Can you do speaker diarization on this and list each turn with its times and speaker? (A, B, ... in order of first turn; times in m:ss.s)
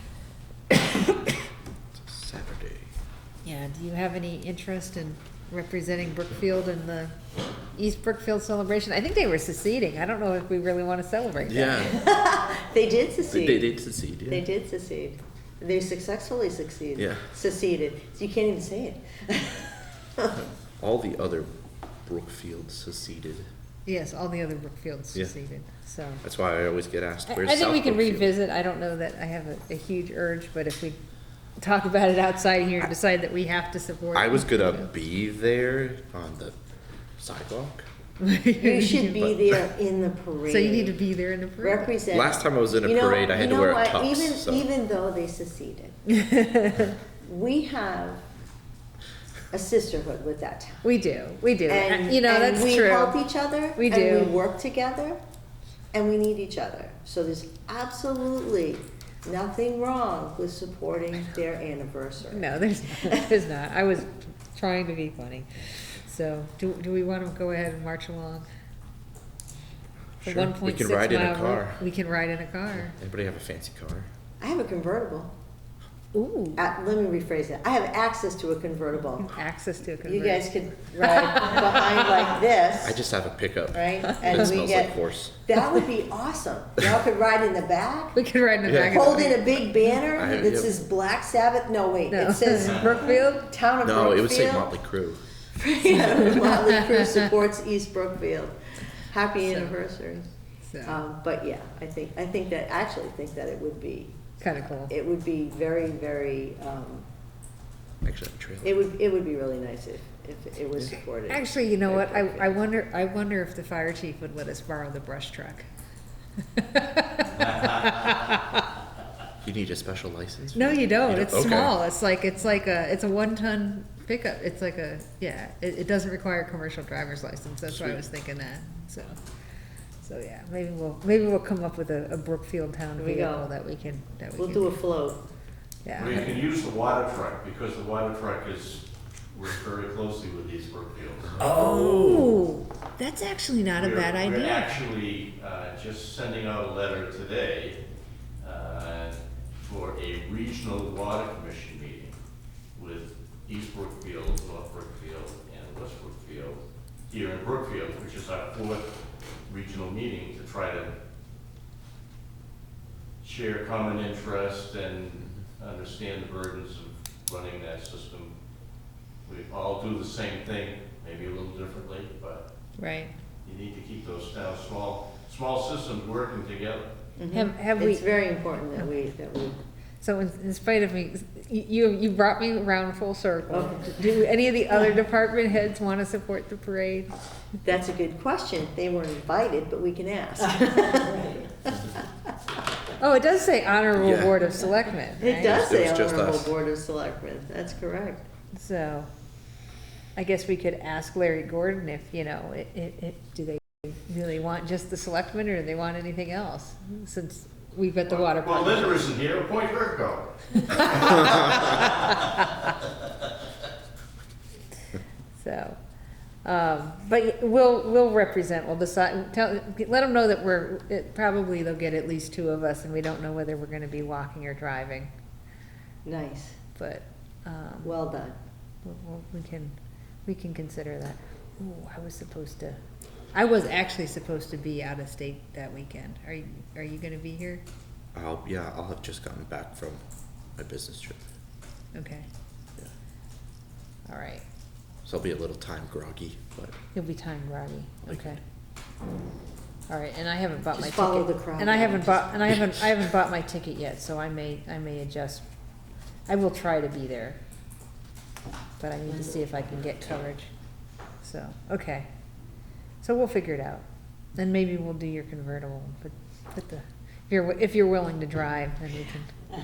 0:02.0-0:02.9 A
0:03.4-0:07.2 B
0:07.8-0:11.9 B
0:11.4-0:12.0 A
0:11.8-0:20.3 C
0:13.3-0:14.5 A
0:17.0-0:17.2 A
0:20.8-0:21.5 A
0:22.1-0:23.5 A
0:23.9-0:26.2 B
0:26.2-0:28.3 A
0:27.3-0:31.0 B
0:31.6-0:34.9 B
0:34.1-0:36.6 A
0:37.2-0:37.8 A
0:38.2-0:39.4 B
0:38.6-0:41.0 C
0:40.5-0:41.9 B
0:41.6-0:46.0 C
0:42.1-0:44.7 A
0:46.1-0:46.9 B
0:47.2-0:48.2 C
0:49.5-0:50.9 C
0:50.8-0:53.2 B
0:51.7-0:55.2 C
0:53.8-0:54.4 B
0:55.9-1:03.4 C
1:02.3-1:08.5 B
1:10.2-1:11.8 A
1:10.2-1:13.0 B
1:12.9-1:14.1 A
1:14.4-1:15.4 C
1:16.1-1:16.7 B
1:16.6-1:19.4 C
1:19.2-1:21.9 B
1:20.0-1:23.0 C
1:22.8-1:25.4 A
1:23.7-1:28.2 C
1:28.2-1:29.6 B
1:28.6-1:29.2 A
1:28.9-1:34.7 C
1:30.1-1:30.8 A
1:32.1-1:33.5 B
1:32.6-1:33.0 D
1:33.8-1:35.2 A
1:35.6-1:38.6 C
1:36.3-1:36.7 B
1:39.1-1:40.3 C
1:40.7-1:41.0 B
1:40.8-1:47.1 C
1:44.4-1:44.9 B
1:48.0-1:48.8 A
1:48.6-1:52.6 C
1:51.3-1:55.7 B
1:56.5-1:58.6 B
1:57.3-1:58.3 D
1:59.4-2:01.8 A
2:00.6-2:09.2 B
2:07.7-2:08.0 A
2:10.0-2:14.7 B
2:13.0-2:13.5 C
2:14.4-2:15.3 C
2:15.8-2:16.4 B
2:16.0-2:21.4 D
2:21.4-2:22.4 A
2:21.4-2:24.8 B
2:23.8-2:27.8 D
2:28.4-2:32.2 D
2:32.8-2:38.9 D
2:39.5-2:40.9 D
2:43.2-2:48.3 D
2:49.2-2:52.4 D
2:52.8-2:53.1 B
2:53.4-2:56.9 D
2:57.2-2:59.6 C
2:57.3-2:58.1 B
3:00.0-3:07.1 B
3:03.5-3:04.0 C
3:07.6-3:11.9 C
3:13.0-3:15.6 B
3:14.0-3:14.4 A
3:15.2-3:18.3 C
3:15.4-3:16.6 A
3:18.5-3:19.1 B
3:20.2-3:29.1 B
3:28.1-3:32.3 D
3:30.8-3:31.9 B
3:35.4-3:35.8 B
3:36.4-3:45.1 B
3:46.0-3:46.6 C
3:46.8-3:48.0 B
3:47.8-3:48.4 C
3:48.8-3:52.8 B
3:53.3-3:57.6 B
3:58.1-4:00.0 A
4:00.6-4:01.3 A
4:01.9-4:02.3 B
4:04.1-4:04.4 B
4:05.0-4:06.8 A
4:06.9-4:08.4 B
4:09.9-4:15.4 B
4:10.7-4:12.4 C
4:16.3-4:17.4 B
4:18.8-4:20.5 B
4:21.2-4:22.1 B
4:23.0-4:29.4 B